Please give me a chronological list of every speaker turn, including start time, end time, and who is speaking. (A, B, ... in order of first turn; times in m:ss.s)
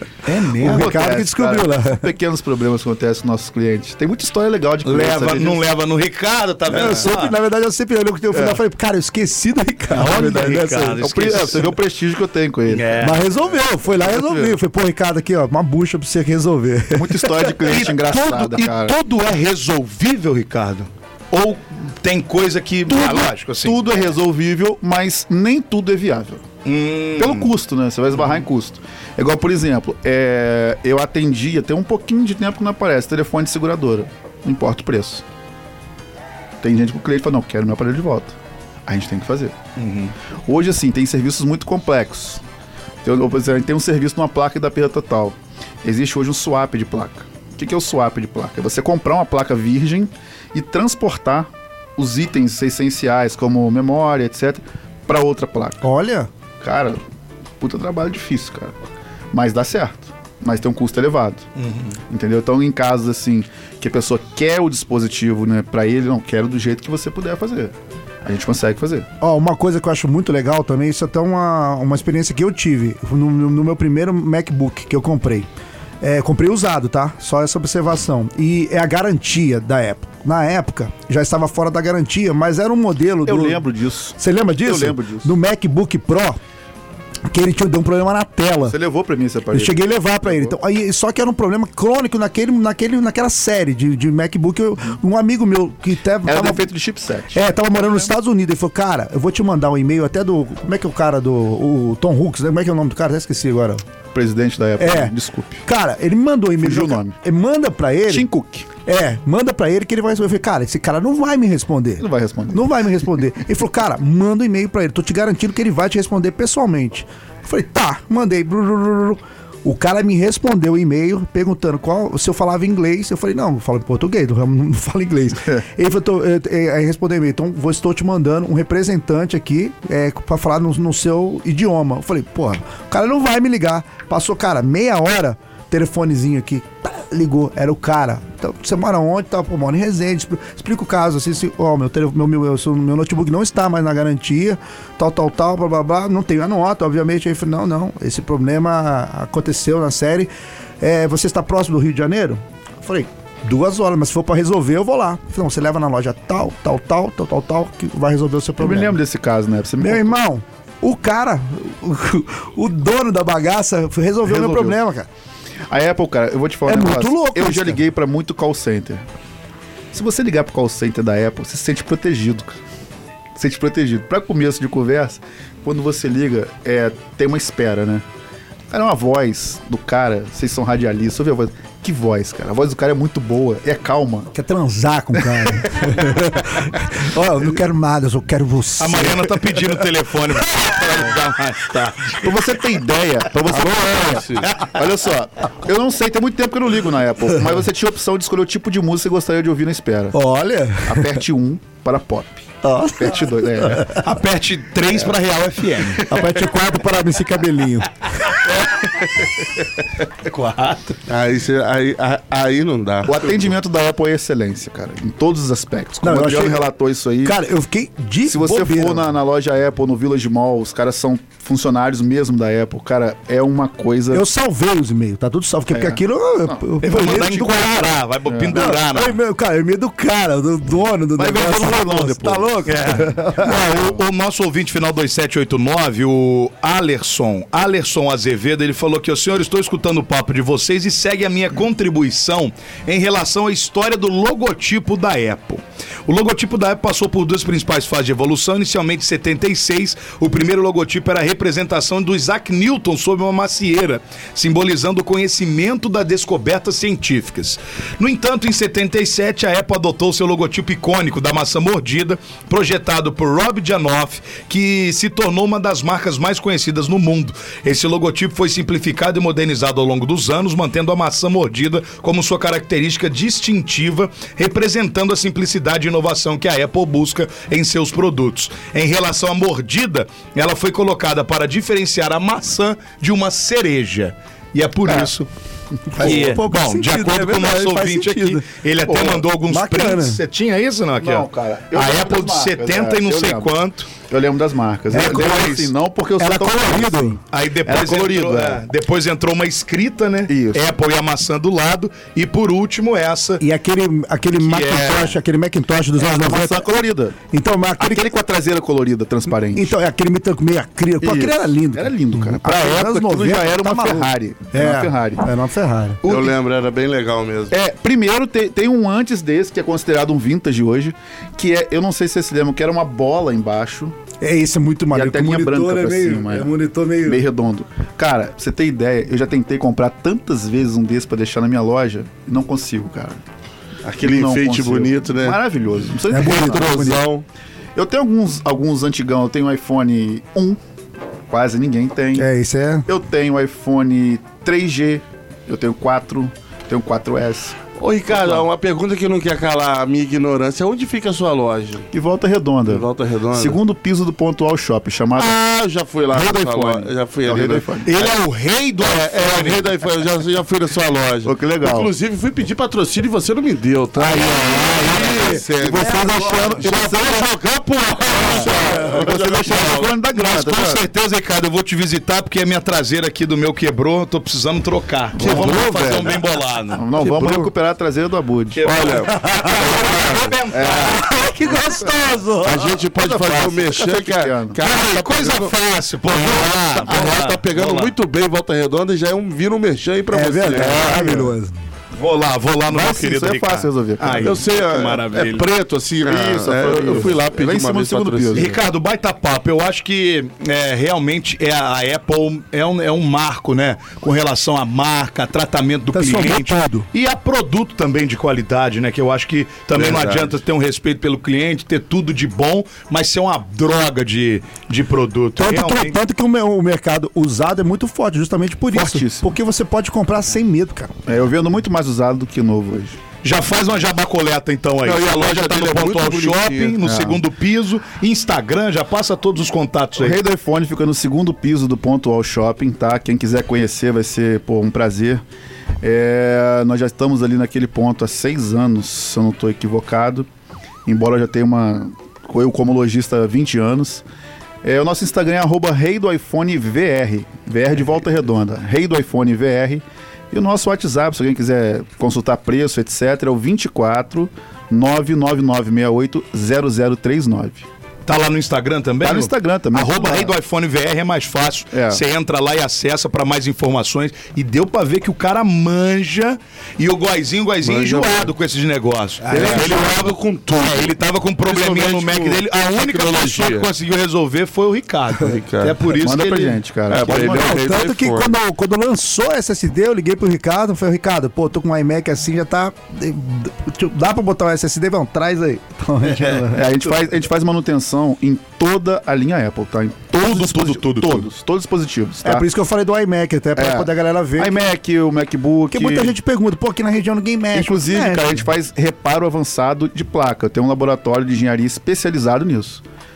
0:00.2-0:01.0 A
0:00.6-0:02.1 B
0:00.6-0:05.6 C
0:04.8-0:07.4 A
0:06.7-0:11.1 B
0:09.9-0:11.8 A
0:11.0-0:12.9 C
0:12.7-0:13.4 A
0:13.0-0:17.6 B
0:14.1-0:14.5 C
0:16.9-0:18.9 C
0:17.6-0:24.0 A
0:22.9-0:26.4 C
0:26.6-0:27.5 A
0:27.2-0:35.2 C
0:36.6-0:38.4 C
0:38.9-0:39.6 C
0:39.8-0:40.1 A
0:40.4-0:42.4 C
0:43.0-0:55.8 C
0:55.8-0:56.3 B
0:56.6-0:57.0 C
0:57.6-0:58.8 C
0:59.3-1:01.5 C
1:01.6-1:02.0 A
1:02.1-1:07.7 C
1:08.2-1:09.1 C
1:09.2-1:15.5 B
1:16.0-1:23.6 B
1:23.2-1:25.3 C
1:24.2-1:26.4 B
1:27.3-1:28.8 B
1:28.7-1:30.5 C
1:29.5-1:36.6 B
1:36.2-1:38.1 C
1:37.3-1:43.8 B
1:44.1-1:45.6 C
1:44.8-1:45.1 B
1:45.6-1:48.3 B
1:46.6-1:47.2 C
1:48.1-1:48.7 C
1:48.8-2:30.3 B
1:52.0-1:52.7 C
2:30.8-2:39.0 B
2:38.6-2:40.2 C
2:39.8-2:45.1 B
2:44.2-2:44.8 C
2:45.7-2:49.0 C
2:46.7-2:47.8 B
2:49.9-2:52.6 C
2:53.4-2:58.0 C
2:58.7-3:04.3 C
3:04.3-3:09.6 B
3:05.2-3:06.1 C
3:08.8-3:12.3 A
3:12.2-3:20.2 C
3:13.5-3:14.2 B
3:13.9-3:14.5 D
3:14.4-3:14.8 A
3:20.1-3:21.2 B
3:20.8-3:24.0 C
3:22.6-3:24.0 B
3:24.0-3:26.2 A
3:26.0-3:28.0 B
3:28.4-3:29.1 A
3:30.2-3:31.0 A
3:31.1-3:33.5 D
3:33.0-3:37.4 C
3:36.0-3:36.6 B
3:37.2-3:39.1 B
3:38.2-3:44.2 C
3:44.1-3:47.7 B
3:45.7-3:46.6 C
3:46.8-3:49.2 A
3:48.2-3:48.6 C
3:48.5-3:53.6 B
3:51.2-3:54.0 C
3:52.7-4:45.3 A
4:45.9-4:50.2 B
4:46.0-4:53.9 A
4:48.9-4:49.2 C
4:51.0-4:58.6 C
4:54.9-4:55.4 B
4:54.9-4:55.7 A
4:56.2-4:57.2 B
4:57.3-5:03.4 A
5:00.3-5:00.7 C
5:03.4-5:06.7 B
5:04.4-5:05.2 A
5:06.0-5:07.2 C
5:07.3-5:08.0 B
5:07.8-5:09.7 C
5:09.5-5:16.0 B
5:11.0-5:15.2 C
5:16.0-5:16.4 C
5:16.0-5:17.5 D
5:17.5-5:24.0 C
5:24.2-5:27.2 B
5:24.9-5:26.5 C
5:27.0-5:33.2 C
5:33.8-5:35.4 D
5:34.0-5:36.9 C
5:36.1-5:37.0 B
5:36.1-5:37.2 D
5:37.8-5:40.6 C
5:41.3-5:42.2 C
5:42.2-5:42.9 B
5:42.9-5:48.5 C
5:47.8-5:51.9 D
5:51.9-5:55.4 C
5:52.7-5:53.6 D
5:55.2-5:58.1 D
5:56.1-5:57.9 C
5:57.8-5:59.7 A
5:58.8-6:09.9 D
6:01.2-6:01.9 C
6:04.0-6:05.0 A
6:04.0-6:04.3 C
6:04.4-6:06.4 B
6:04.9-6:07.3 C
6:08.2-6:10.8 C
6:10.1-6:16.8 A
6:15.2-6:15.7 C
6:15.2-6:16.2 D
6:16.7-6:18.6 C
6:17.0-6:17.5 D
6:18.5-6:21.2 A
6:18.6-6:19.2 D
6:20.5-6:21.0 C
6:20.6-6:20.9 D
6:20.9-6:22.7 B
6:22.4-6:25.5 D
6:22.8-6:24.6 C
6:24.6-6:27.9 A
6:26.1-6:31.3 D
6:30.1-6:31.5 B
6:31.9-6:35.5 A
6:32.7-6:34.4 C
6:34.1-6:38.6 D
6:36.0-6:38.5 C
6:38.3-6:56.0 A
6:45.9-6:46.9 B
6:49.7-6:50.4 D
6:55.4-7:00.9 B
6:58.7-6:59.3 C
7:01.0-7:03.0 C
7:03.2-7:10.2 A
7:04.8-7:06.8 D
7:06.8-7:07.2 C
7:10.0-7:15.2 C
7:15.8-7:20.3 C
7:20.8-7:24.0 C
7:24.6-7:37.7 C
7:38.0-7:56.6 A
7:39.0-7:40.3 C
7:41.7-7:42.0 C
7:47.6-7:48.3 D
7:49.3-7:53.7 D
7:49.4-7:49.8 B
7:55.2-7:55.8 D
7:56.0-7:57.6 C
7:56.9-7:58.3 D
7:57.1-8:06.9 B
8:06.2-8:12.5 C
8:10.1-8:11.3 A
8:12.2-8:14.6 B
8:13.6-8:16.1 C
8:15.7-8:18.5 B
8:17.5-8:22.8 C